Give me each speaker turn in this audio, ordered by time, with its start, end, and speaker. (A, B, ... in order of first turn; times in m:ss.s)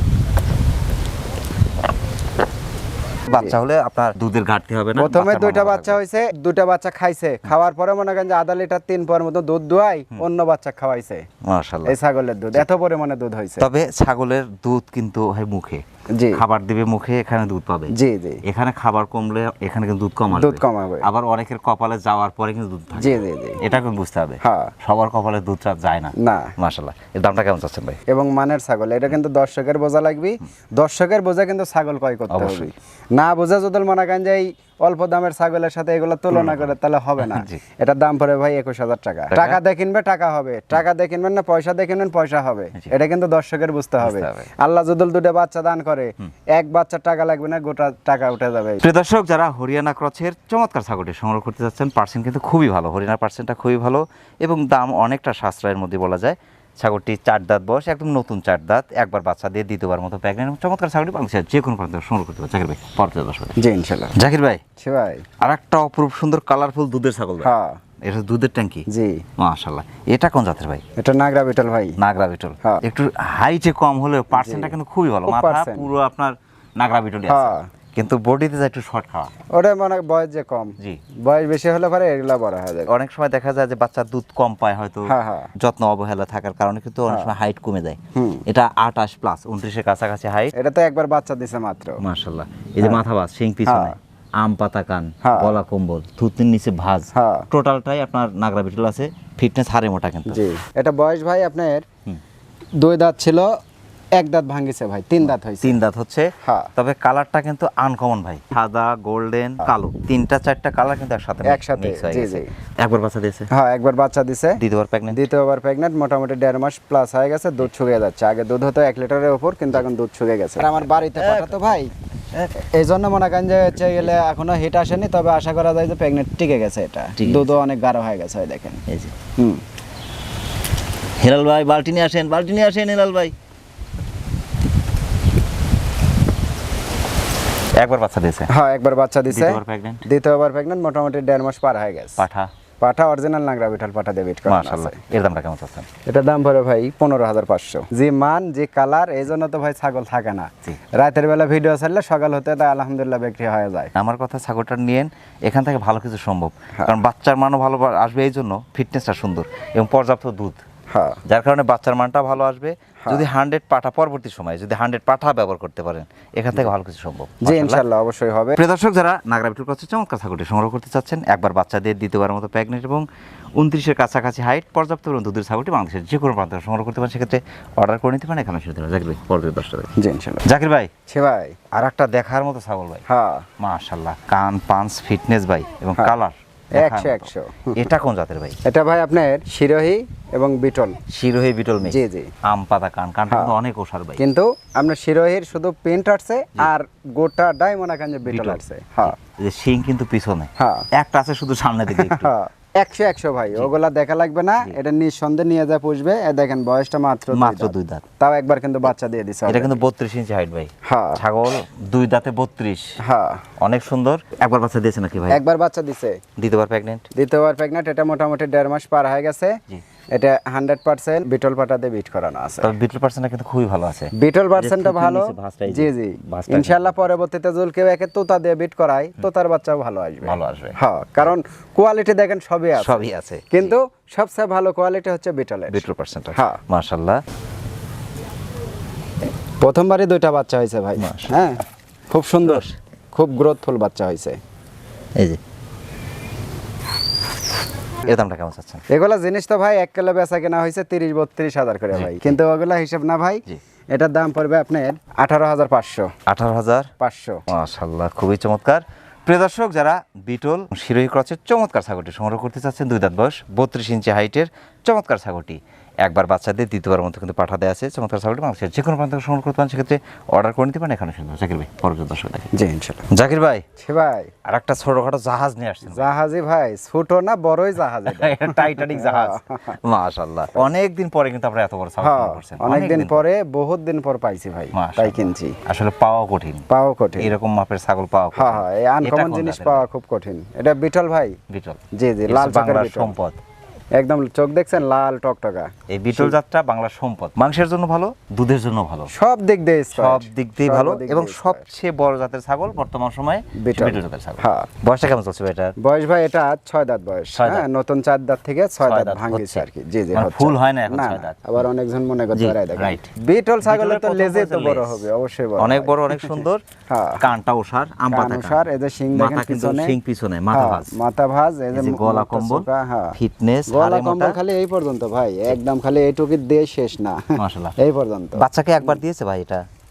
0:03.3-0:06.0 A
0:05.0-0:11.2 B
0:11.4-0:12.0 A
0:11.8-0:13.7 B
0:13.6-0:28.0 A
0:16.1-0:16.4 B
0:17.9-0:18.4 B
0:20.3-0:21.1 B
0:23.0-0:23.6 B
0:24.4-0:24.7 B
0:26.2-0:26.5 B
0:28.1-0:48.8 B
0:32.3-0:32.7 A
0:36.3-0:37.6 A
0:39.3-0:39.6 A
0:44.0-0:44.5 A
0:48.8-1:03.6 A
1:03.6-1:04.2 B
1:04.1-1:04.6 A
1:04.8-1:05.2 B
1:05.4-1:07.5 A
1:07.4-1:07.8 B
1:08.0-1:08.8 A
1:08.9-1:09.2 B
1:09.4-1:10.8 A
1:11.0-1:12.0 B
1:12.0-1:19.3 A
1:14.3-1:15.9 B
1:17.3-1:17.7 B
1:19.5-1:22.9 B
1:22.9-1:30.5 A
1:25.0-1:25.5 B
1:28.1-1:28.4 B
1:30.5-1:32.0 B
1:32.0-1:40.4 A
1:33.6-1:33.9 B
1:35.2-1:35.5 B
1:37.1-1:37.5 B
1:40.3-1:41.8 B
1:42.8-1:43.5 B
1:44.2-1:45.7 B
1:45.2-1:53.5 A
1:46.4-1:46.7 B
1:51.4-1:52.5 B
1:53.5-2:01.9 B
1:54.6-1:55.2 A
2:00.6-2:02.5 A
2:02.6-2:08.8 B
2:07.2-2:07.5 A
2:08.9-2:09.1 A
2:09.4-2:09.6 B
2:11.2-2:13.3 A
2:17.8-2:18.5 A
2:18.5-2:22.2 B
2:19.3-2:20.0 A
2:22.2-2:22.5 A
2:22.8-2:25.0 B
2:24.5-2:25.9 A
2:26.0-2:33.9 B
2:33.9-2:40.6 A
2:40.9-2:41.2 B
2:41.2-2:47.8 A
2:47.4-2:48.6 B
2:48.6-2:53.0 A
2:53.6-2:59.9 A
3:00.0-3:00.4 B
3:00.4-3:00.9 A
3:01.1-3:01.6 B
3:01.7-3:03.0 A
3:03.1-3:03.5 B
3:03.6-3:08.6 A
3:06.7-3:07.8 B
3:08.6-3:11.0 B
3:11.1-3:14.2 A
3:11.8-3:12.3 B
3:13.3-3:13.5 B
3:14.2-3:19.2 B
3:18.2-3:22.3 A
3:20.6-3:20.9 B
3:21.9-3:29.8 B
3:27.3-3:28.0 A
3:29.5-3:33.0 A
3:30.8-3:31.2 B
3:33.0-3:33.4 B
3:33.6-3:35.4 A
3:35.3-3:36.2 B
3:36.4-3:37.0 A
3:37.1-3:39.6 B
3:40.1-3:42.7 B
3:42.6-3:47.1 A
3:44.1-3:55.8 B
3:50.2-3:51.3 A
3:52.8-3:53.7 A
3:55.7-3:57.2 A
3:56.3-3:56.6 B
3:59.6-4:01.6 B
4:01.0-4:01.3 A
4:02.1-4:04.4 B
4:02.4-4:02.8 A
4:08.0-4:08.8 A
4:08.9-4:16.1 B
4:11.9-4:12.4 A
4:16.3-4:16.9 A
4:17.0-4:17.4 B
4:17.5-4:32.5 A
4:32.5-4:33.1 B
4:33.1-4:33.6 A
4:33.8-4:34.3 B
4:34.4-4:36.1 A
4:35.9-4:39.8 B
4:38.0-4:43.2 A
4:42.0-4:45.6 B
4:44.7-4:46.6 A
4:46.7-4:47.3 B
4:47.2-4:49.8 A
4:48.3-4:51.4 B
4:51.5-4:53.4 A
4:51.9-4:53.2 B
4:54.0-4:56.3 B
4:55.9-4:59.1 A
4:59.1-5:01.7 B
4:59.9-5:05.7 A
5:03.5-5:04.7 B
5:05.8-5:17.2 B
5:07.3-5:07.6 A
5:08.8-5:11.4 A
5:12.3-5:13.1 A
5:13.6-5:15.1 A
5:15.6-5:16.6 A
5:17.2-5:20.9 A
5:18.1-5:20.0 B
5:20.5-5:23.2 B
5:21.7-5:24.4 A
5:23.7-5:29.0 B
5:27.4-5:27.7 A
5:28.4-5:29.6 A